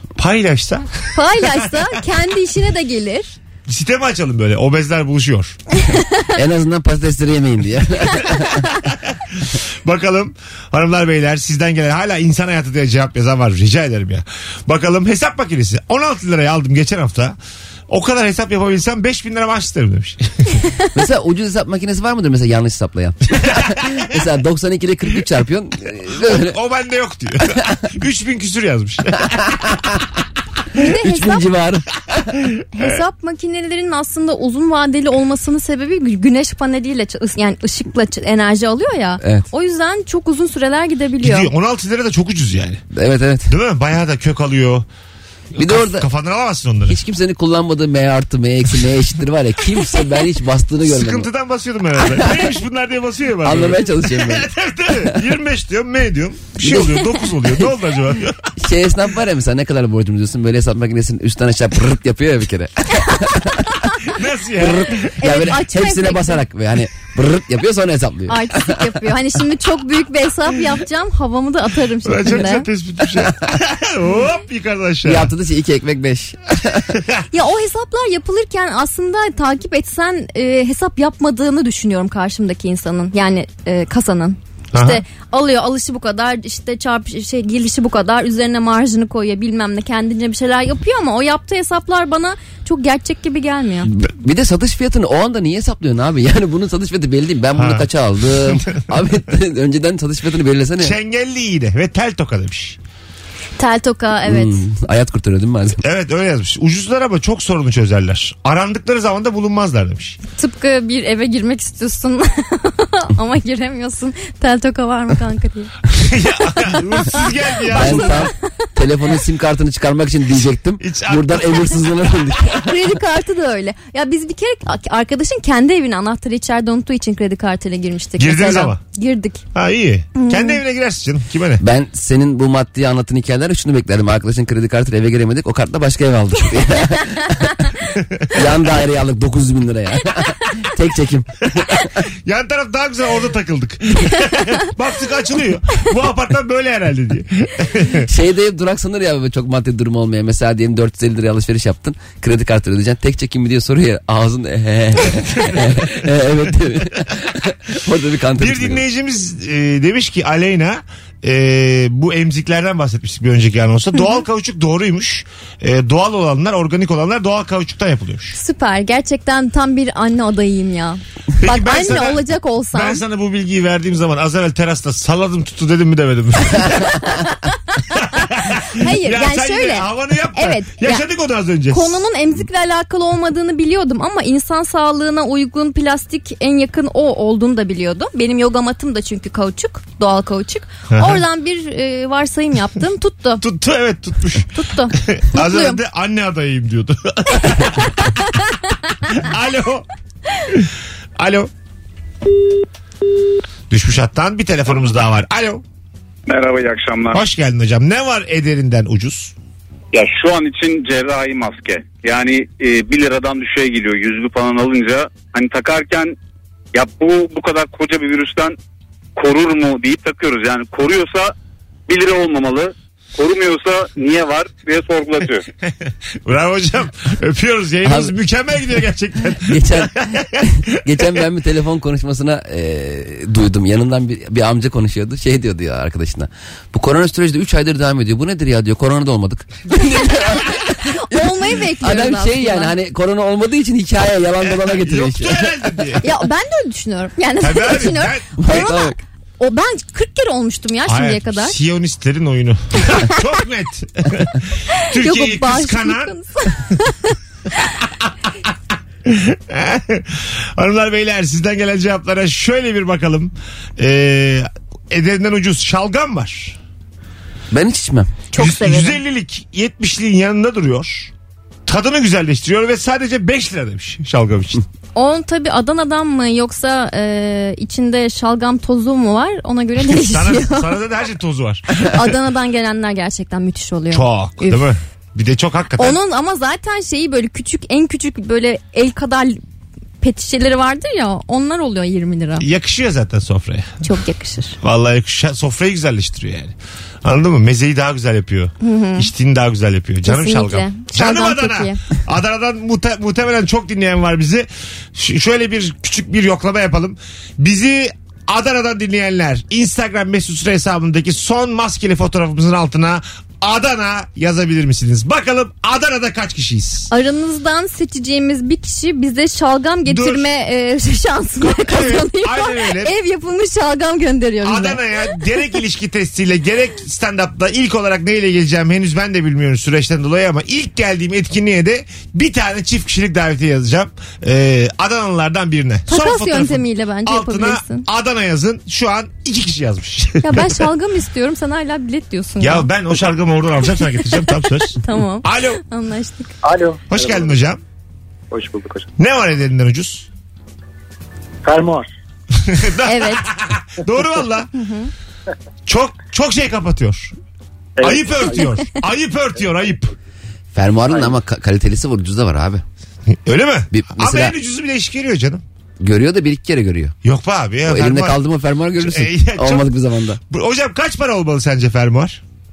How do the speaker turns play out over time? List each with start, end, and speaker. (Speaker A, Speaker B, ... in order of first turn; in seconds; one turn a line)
Speaker A: 0.2-1.7
Speaker B: 1.1-3.3
Speaker A: 3.7-5.5
Speaker B: 5.8-6.3
Speaker C: 6.3-8.6
Speaker A: 8.6-17.4
Speaker A: 17.9-20.6
Speaker C: 20.9-26.6
Speaker A: 23.4-23.9
Speaker A: 26.1-29.8
Speaker B: 30.8-31.4
Speaker C: 30.8-31.9
Speaker A: 32.4-32.9
Speaker B: 32.7-41.5
Speaker C: 39.2-39.5
Speaker A: 41.2-42.8
Speaker C: 42.9-43.5
Speaker A: 43.5-44.9
Speaker A: 45.5-47.0
Speaker C: 45.6-46.1
Speaker C: 46.9-51.3
Speaker A: 50.8-58.4
Speaker C: 52.1-52.4
Speaker C: 53.4-55.2
Speaker C: 56.6-57.7
Speaker C: 58.6-63.6
Speaker A: 64.0-65.1
Speaker C: 64.6-68.9
Speaker B: 65.2-66.4
Speaker B: 68.3-72.7
Speaker A: 72.0-75.3
Speaker C: 75.0-77.0
Speaker B: 77.3-93.9
Speaker A: 84.7-85.0
Speaker C: 93.8-100.9
Speaker A: 97.5-97.9
Speaker A: 98.5-98.8
Speaker A: 100.8-102.8
Speaker B: 103.6-104.6
Speaker C: 104.2-105.8
Speaker A: 105.8-110.2
Speaker B: 110.3-115.7
Speaker A: 116.0-118.3
Speaker C: 117.7-122.7
Speaker B: 117.8-118.3
Speaker A: 120.8-121.8
Speaker B: 122.6-129.4
Speaker A: 128.2-128.8
Speaker A: 129.5-131.6
Speaker B: 130.1-130.6
Speaker C: 131.6-137.3
Speaker A: 138.0-138.4
Speaker C: 138.3-141.8
Speaker A: 142.2-148.1
Speaker C: 148.1-158.8
Speaker A: 155.3-155.9
Speaker A: 158.4-168.3
Speaker B: 168.3-173.0
Speaker A: 171.4-172.2
Speaker A: 172.7-177.2
Speaker B: 177.0-181.1
Speaker A: 177.9-182.0
Speaker B: 181.7-193.4
Speaker A: 190.9-191.2
Speaker A: 193.4-198.2
Speaker B: 194.5-195.8
Speaker A: 199.1-199.8
Speaker A: 200.4-201.5
Speaker A: 203.7-205.6
Speaker D: 206.3-207.2
Speaker A: 207.1-209.3
Speaker D: 209.9-216.1
Speaker D: 216.7-218.6
Speaker D: 219.2-221.3
Speaker D: 221.9-225.4
Speaker A: 226.2-230.3
Speaker C: 227.8-228.1
Speaker C: 229.5-245.5
Speaker B: 240.1-242.7
Speaker A: 244.7-246.0
Speaker B: 246.0-251.6
Speaker A: 247.4-248.3
Speaker C: 248.4-249.0
Speaker A: 250.8-256.1
Speaker B: 254.7-257.1
Speaker A: 259.1-266.6
Speaker C: 267.5-268.2
Speaker B: 268.3-269.0
Speaker A: 268.3-271.1
Speaker A: 271.6-274.6
Speaker B: 274.9-280.8
Speaker A: 279.9-282.0
Speaker B: 281.8-284.6
Speaker A: 283.9-286.0
Speaker B: 285.8-289.4
Speaker B: 290.0-292.4
Speaker A: 292.4-293.7
Speaker B: 293.8-294.6
Speaker A: 294.6-316.9
Speaker B: 298.6-299.1
Speaker B: 300.0-301.8
Speaker B: 316.9-325.5
Speaker A: 319.9-320.3
Speaker A: 321.4-322.9
Speaker A: 324.4-340.7
Speaker B: 335.9-337.9
Speaker B: 340.2-342.7
Speaker A: 342.4-345.6
Speaker B: 343.9-346.3
Speaker E: 346.4-347.4
Speaker A: 346.9-347.6
Speaker E: 348.3-348.9
Speaker A: 349.0-350.1
Speaker E: 351.4-351.9
Speaker A: 352.4-354.5
Speaker B: 352.8-353.2
Speaker B: 354.6-354.9
Speaker A: 355.6-357.1
Speaker E: 357.8-358.5
Speaker A: 357.8-359.9
Speaker C: 360.5-362.6
Speaker E: 360.9-361.1
Speaker A: 363.1-365.4
Speaker C: 363.7-364.3
Speaker C: 365.8-366.9
Speaker A: 367.0-368.2
Speaker C: 367.6-370.2
Speaker A: 368.8-369.7
Speaker A: 370.3-372.2